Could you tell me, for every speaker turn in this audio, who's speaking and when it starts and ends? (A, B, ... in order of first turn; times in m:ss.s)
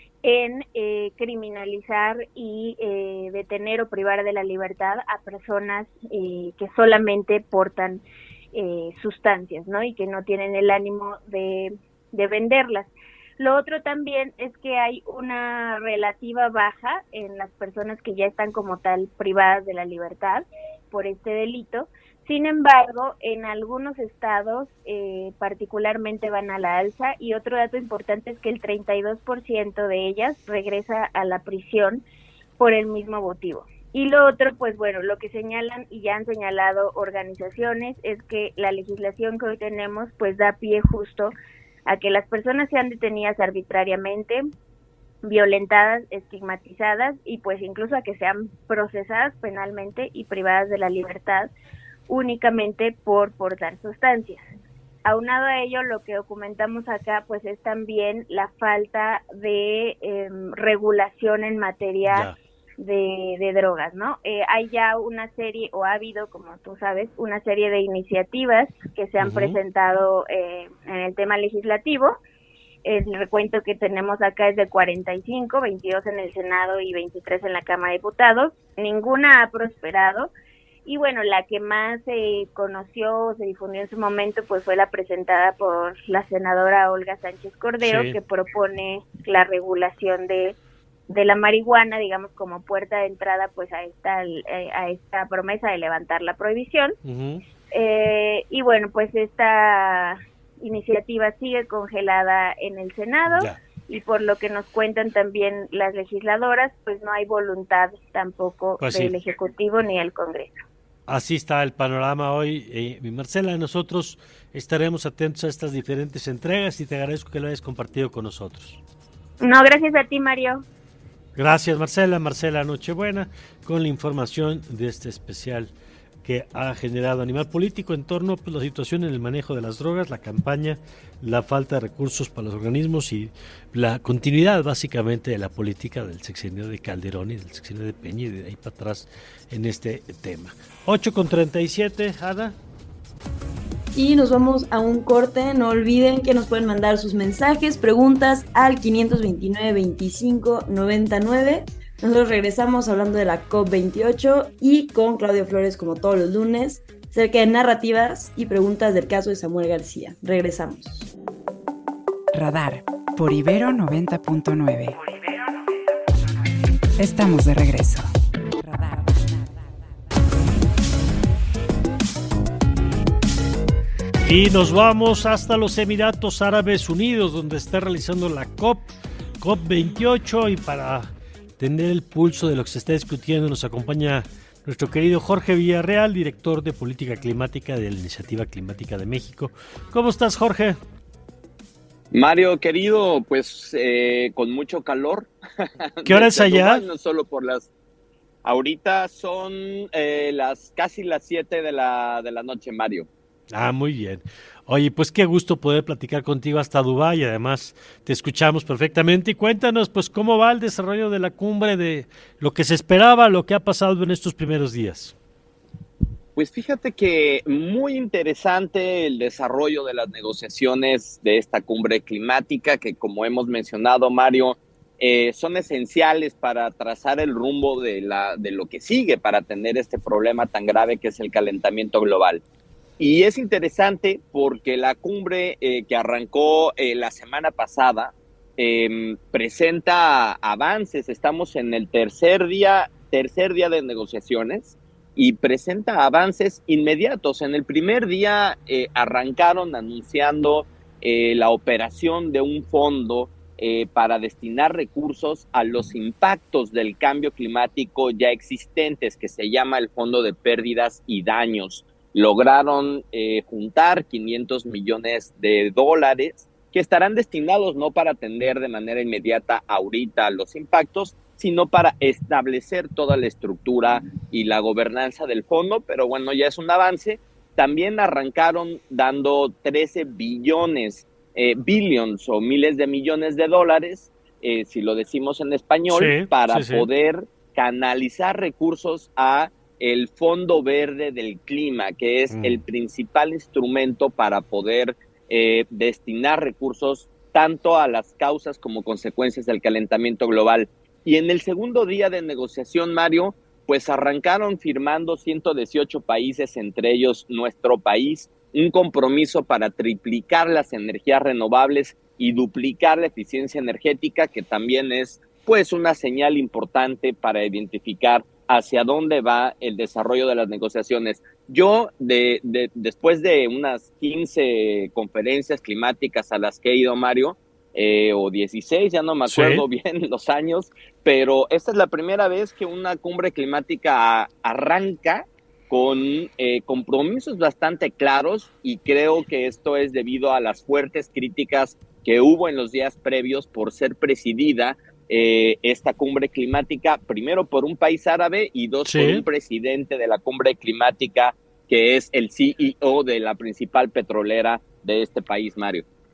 0:00.2-0:32.0 A
0:32.6-0:41.3 A
0:41.9-0:44.4 A
0:45.2-0:51.5 A
0:52.1-0:54.4 A
0:55.0-1:12.2 A
1:02.1-1:02.3 B
1:09.2-1:09.6 B
1:12.8-1:20.3 A
1:20.9-1:30.6 A
1:27.8-1:28.2 B
1:31.1-1:37.0 A
1:37.0-1:37.4 B
1:37.7-1:50.5 A
1:43.3-1:43.6 B
1:48.8-1:49.1 B
1:51.1-1:58.8 B
1:59.4-2:00.6 A
2:01.4-2:05.7 B
2:06.2-2:22.5 B
2:23.9-2:41.1 C
2:42.3-2:45.2 D
2:47.0-2:49.3 D
2:54.2-3:10.8 B
3:12.1-3:17.7 E
3:16.0-3:16.8 B
3:18.4-3:23.1 E
3:23.5-3:35.1 B
3:36.4-3:52.4 E
3:53.0-5:55.8 E
4:45.9-4:46.9 B
4:52.3-4:52.6 B
5:29.2-5:29.6 B
5:48.8-5:49.2 B